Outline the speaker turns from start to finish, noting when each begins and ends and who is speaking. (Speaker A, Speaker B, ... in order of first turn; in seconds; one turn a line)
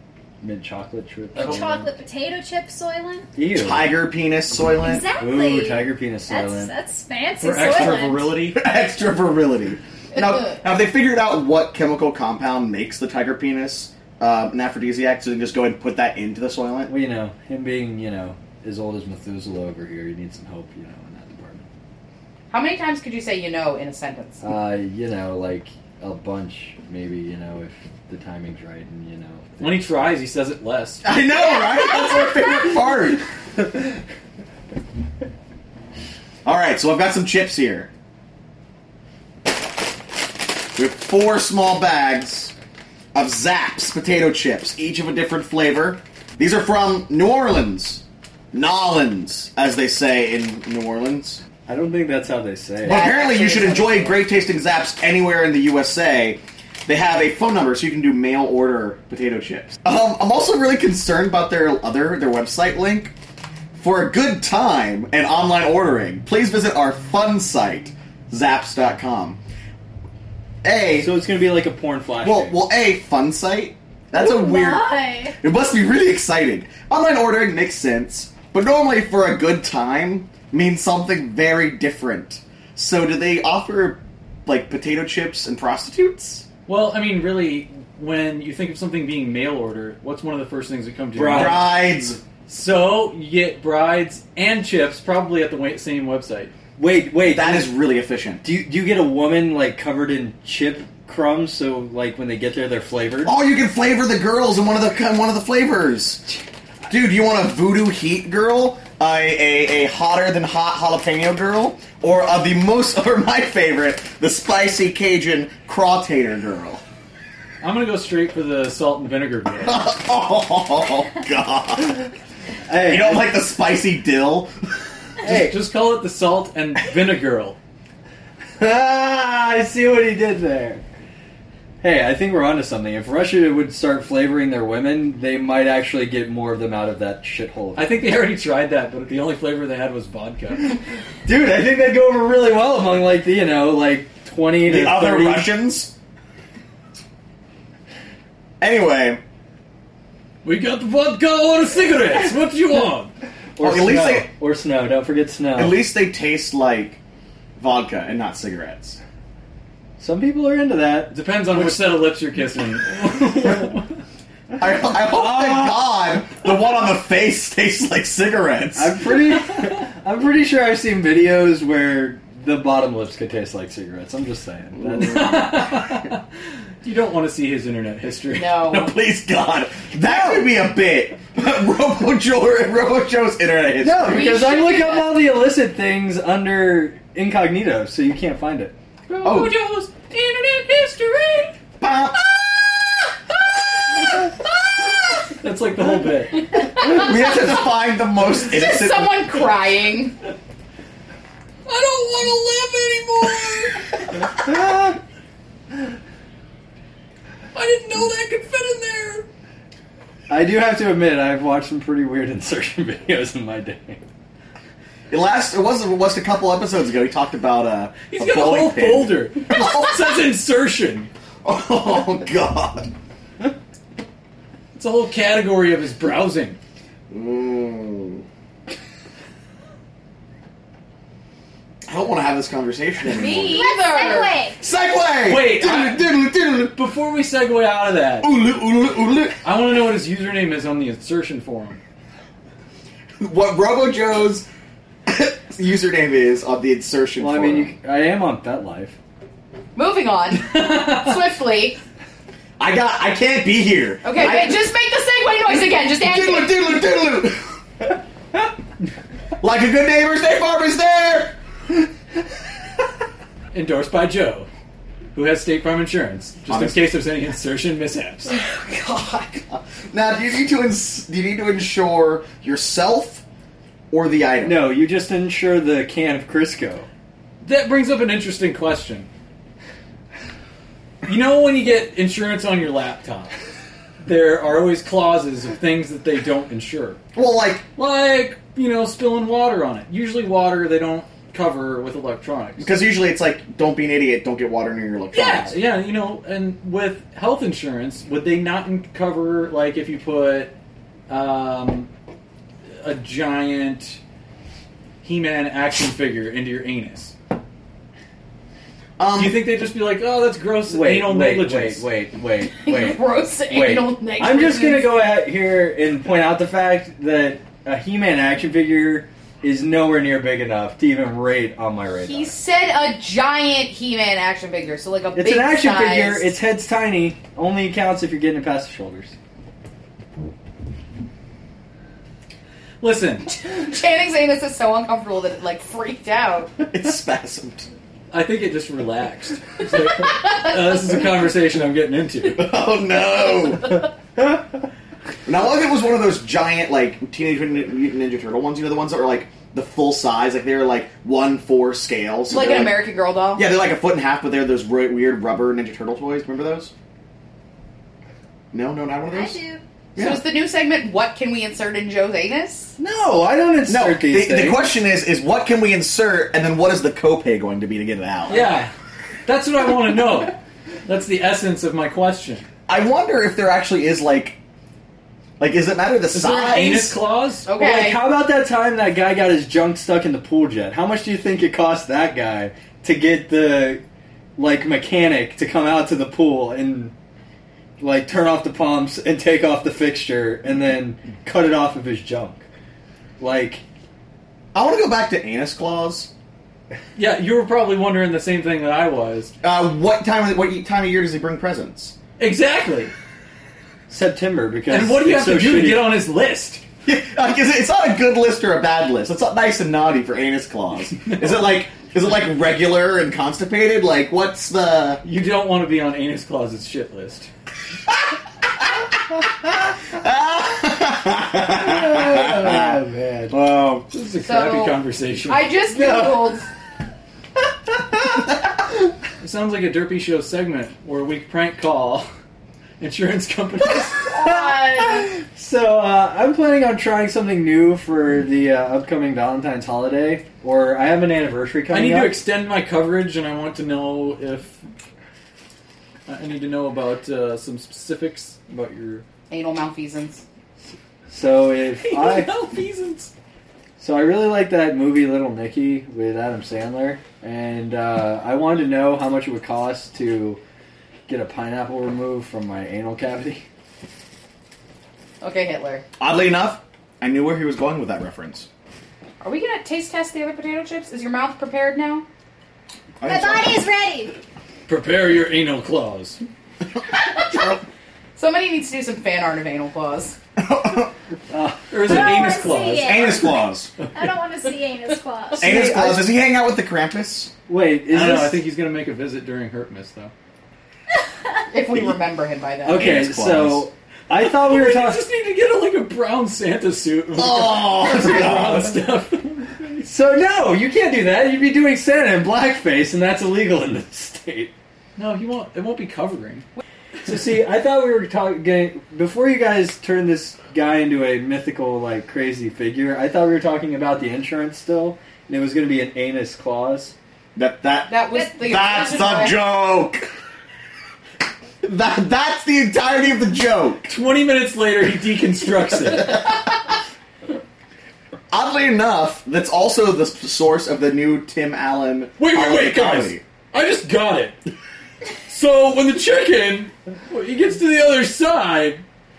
Speaker A: 0.4-1.9
Speaker B: 1.4-1.7
Speaker C: 1.4-3.3
Speaker A: 3.4-4.0
Speaker D: 3.6-5.0
Speaker C: 4.6-8.4
Speaker A: 5.2-6.7
Speaker B: 7.4-8.6
Speaker D: 7.7-16.9
Speaker A: 16.9-21.6
Speaker E: 22.5-24.4
Speaker A: 24.4-29.8
Speaker B: 29.6-31.0
Speaker D: 31.0-33.2
Speaker D: 36.5-37.9
Speaker D: 40.8-42.5
Speaker D: 43.1-51.4
Speaker A: 51.7-53.1
Speaker E: 52.8-54.2
Speaker D: 52.8-63.1
Speaker D: 63.8-69.4
Speaker D: 70.6-71.1
Speaker A: 71.0-72.6
Speaker D: 72.2-86.5
Speaker C: 74.1-75.4
Speaker B: 86.7-91.7
Speaker A: 91.2-91.6
Speaker D: 91.3-92.2
Speaker B: 92.5-96.5
Speaker A: 96.8-97.8
Speaker D: 97.2-98.4
Speaker A: 98.4-103.3
Speaker D: 103.2-106.2
Speaker D: 106.9-116.8
Speaker B: 117.6-119.9
Speaker D: 119.6-122.0
Speaker A: 122.7-123.3
Speaker D: 122.8-124.5
Speaker A: 125.2-125.6
Speaker B: 125.2-127.6
Speaker A: 128.6-130.8
Speaker A: 131.8-138.0
Speaker B: 137.8-140.8
Speaker A: 141.2-145.5
Speaker D: 144.6-145.9
Speaker D: 148.6-149.2
Speaker B: 150.4-153.1
Speaker A: 153.6-155.8
Speaker D: 153.6-154.3
Speaker D: 155.6-157.0
Speaker D: 157.6-159.0
Speaker A: 160.0-161.1
Speaker B: 161.1-163.8
Speaker D: 164.6-169.0
Speaker A: 165.1-165.7
Speaker A: 168.8-175.5
Speaker D: 174.8-175.3
Speaker B: 175.0-176.2
Speaker B: 176.8-178.6
Speaker E: 178.3-178.9
Speaker D: 178.7-184.3
Speaker A: 183.8-188.8
Speaker E: 184.0-185.2
Speaker D: 189.1-189.5
Speaker B: 189.1-191.6
Speaker D: 191.8-192.2
Speaker B: 195.3-196.7
Speaker D: 196.8-199.3
Speaker E: 198.4-200.2
Speaker B: 201.7-204.1
Speaker B: 207.5-209.3
Speaker A: 210.3-214.0
Speaker D: 215.1-220.1
Speaker B: 218.1-221.1
Speaker D: 221.4-222.9
Speaker B: 224.8-226.6
Speaker D: 227.1-228.2
Speaker D: 231.9-233.6
Speaker E: 233.1-234.4
Speaker C: 233.5-234.6
Speaker D: 234.6-236.8
Speaker B: 235.2-238.3
Speaker D: 238.2-239.4
Speaker B: 239.4-241.8
Speaker D: 243.2-244.5
Speaker D: 245.1-247.7
Speaker A: 247.2-249.0
Speaker E: 249.8-251.8
Speaker D: 252.6-254.6
Speaker E: 254.0-256.8
Speaker D: 256.0-257.6
Speaker D: 259.4-261.4
Speaker B: 263.5-264.5
Speaker B: 265.1-268.3
Speaker D: 266.5-266.9
Speaker D: 268.3-273.2
Speaker D: 273.9-274.7
Speaker A: 274.4-276.9
Speaker B: 277.4-279.1
Speaker B: 281.1-283.3
Speaker B: 284.0-287.0
Speaker D: 287.1-287.6
Speaker B: 287.8-292.7
Speaker D: 292.6-295.6
Speaker B: 295.1-300.5
Speaker B: 301.1-301.9
Speaker B: 302.8-304.0
Speaker B: 305.0-307.1
Speaker D: 309.0-309.5
Speaker B: 309.1-311.9
Speaker A: 310.7-322.3
Speaker E: 312.6-315.0
Speaker E: 322.1-326.3
Speaker A: 325.1-329.1
Speaker B: 332.8-333.3
Speaker E: 333.3-336.5
Speaker D: 336.7-337.7
Speaker B: 338.1-342.5
Speaker D: 342.4-343.8
Speaker D: 345.3-356.7
Speaker E: 352.3-353.4
Speaker D: 358.5-359.4
Speaker C: 359.1-359.6
Speaker D: 360.0-360.2
Speaker E: 360.0-362.7
Speaker A: 362.8-364.7
Speaker D: 363.7-368.5
Speaker B: 368.3-368.7
Speaker B: 369.3-372.5
Speaker D: 372.7-374.4
Speaker D: 375.4-377.0
Speaker B: 376.1-377.5
Speaker E: 377.5-378.0
Speaker A: 377.5-383.8
Speaker A: 384.4-386.9
Speaker A: 387.8-392.4
Speaker A: 393.2-393.6
Speaker D: 394.5-396.1
Speaker B: 397.0-399.3
Speaker D: 399.4-401.9
Speaker B: 402.2-402.9
Speaker A: 403.9-405.9
Speaker B: 404.7-406.6
Speaker D: 406.9-415.0
Speaker B: 415.0-417.3
Speaker D: 419.9-422.8
Speaker A: 421.5-423.9
Speaker B: 423.9-425.5
Speaker E: 424.2-426.5
Speaker B: 429.2-432.1
Speaker B: 432.8-434.1
Speaker E: 434.1-435.1
Speaker A: 434.2-442.2
Speaker B: 441.7-444.6
Speaker B: 446.1-449.1
Speaker E: 449.3-450.2
Speaker A: 451.1-452.3
Speaker B: 451.8-453.1
Speaker A: 453.8-460.4
Speaker A: 461.1-463.4
Speaker E: 465.2-465.9
Speaker D: 466.0-468.5
Speaker E: 469.2-472.1
Speaker D: 473.0-473.7
Speaker C: 473.0-474.2
Speaker B: 474.7-476.2
Speaker E: 477.2-477.6
Speaker E: 478.2-480.2
Speaker D: 480.4-480.9
Speaker A: 481.3-482.3
Speaker B: 481.7-483.2
Speaker C: 481.8-485.6
Speaker D: 482.8-483.7
Speaker A: 485.4-486.1
Speaker D: 485.4-487.3
Speaker A: 487.5-488.4
Speaker B: 487.9-490.1
Speaker E: 491.5-492.9
Speaker A: 492.6-495.1
Speaker D: 492.7-493.7
Speaker B: 494.2-499.8
Speaker D: 497.1-498.8
Speaker A: 499.8-504.5
Speaker B: 505.0-506.5
Speaker A: 507.1-517.0
Speaker D: 517.4-520.1
Speaker E: 517.9-519.4
Speaker D: 521.6-523.9
Speaker B: 523.9-526.2
Speaker D: 525.9-526.3
Speaker D: 528.3-533.2
Speaker B: 532.2-534.4
Speaker B: 535.3-538.8